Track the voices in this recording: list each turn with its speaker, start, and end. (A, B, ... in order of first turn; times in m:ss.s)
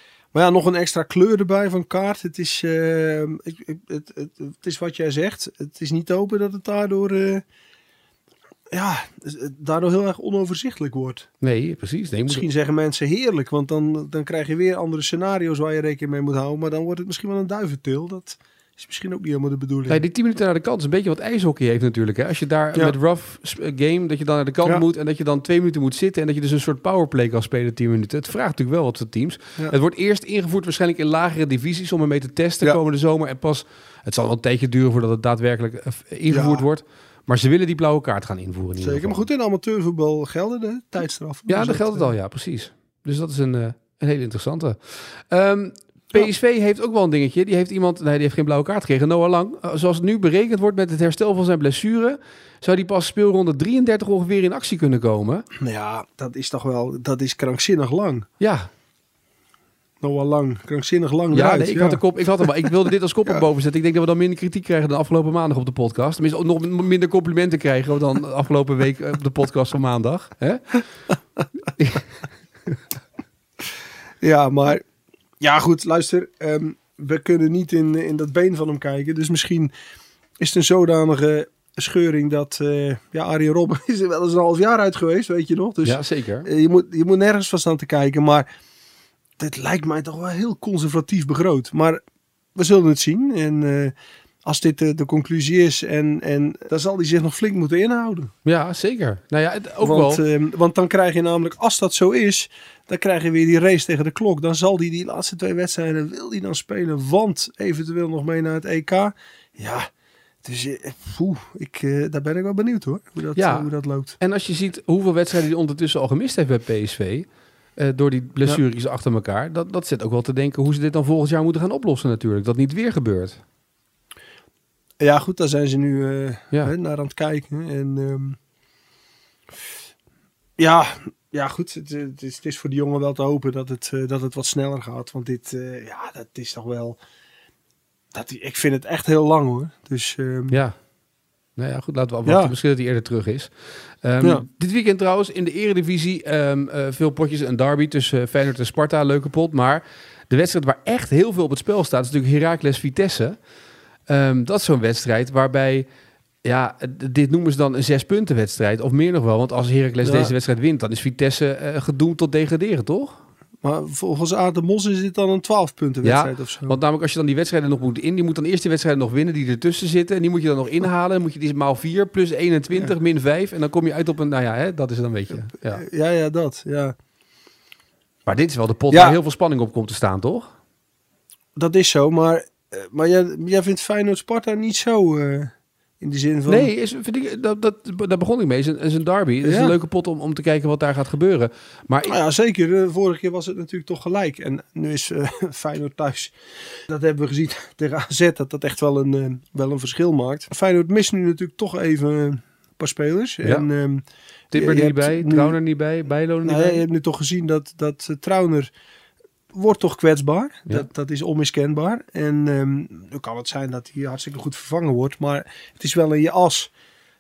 0:00.3-0:07.4 A
0:08.7-0:11.3 A
0:11.4-0:12.5 B
0:12.3-0:20.0 A
0:19.9-0:39.2 B
0:36.3-0:36.7 A
0:38.8-0:42.1 A
0:41.5-0:55.4 B
0:55.6-0:58.3 A
0:58.4-0:58.7 B
1:00.0-1:02.7 A
1:01.3-1:10.8 B
1:11.8-1:12.1 B
1:14.2-1:14.8 A
1:15.4-1:19.7 A
1:20.4-1:28.5 A
1:25.8-1:26.5 B
1:29.4-1:32.0 A
1:32.6-1:38.3 A
1:38.4-1:40.2 B
1:39.8-1:49.9 A
1:50.4-1:54.2 A
1:53.4-1:57.3 B
1:57.8-2:03.4 B
2:05.0-2:08.4 A
2:10.6-2:17.0 A
2:18.1-2:20.6 A
2:20.5-2:20.8 B
2:21.6-2:23.5 B
2:22.2-2:22.5 A
2:24.0-2:33.4 B
2:34.1-2:35.9 B
2:36.4-2:43.2 B
2:40.0-2:40.3 A
2:43.6-2:46.8 A
2:46.0-2:55.8 B
2:55.3-2:57.0 A
2:58.3-3:00.5 B
2:58.9-2:59.2 A
3:01.6-3:06.7 A
3:06.5-3:12.1 B
3:09.4-3:09.8 A
3:12.0-3:25.6 A
3:24.5-3:26.8 B
3:26.4-3:28.7 A
3:29.5-3:36.7 A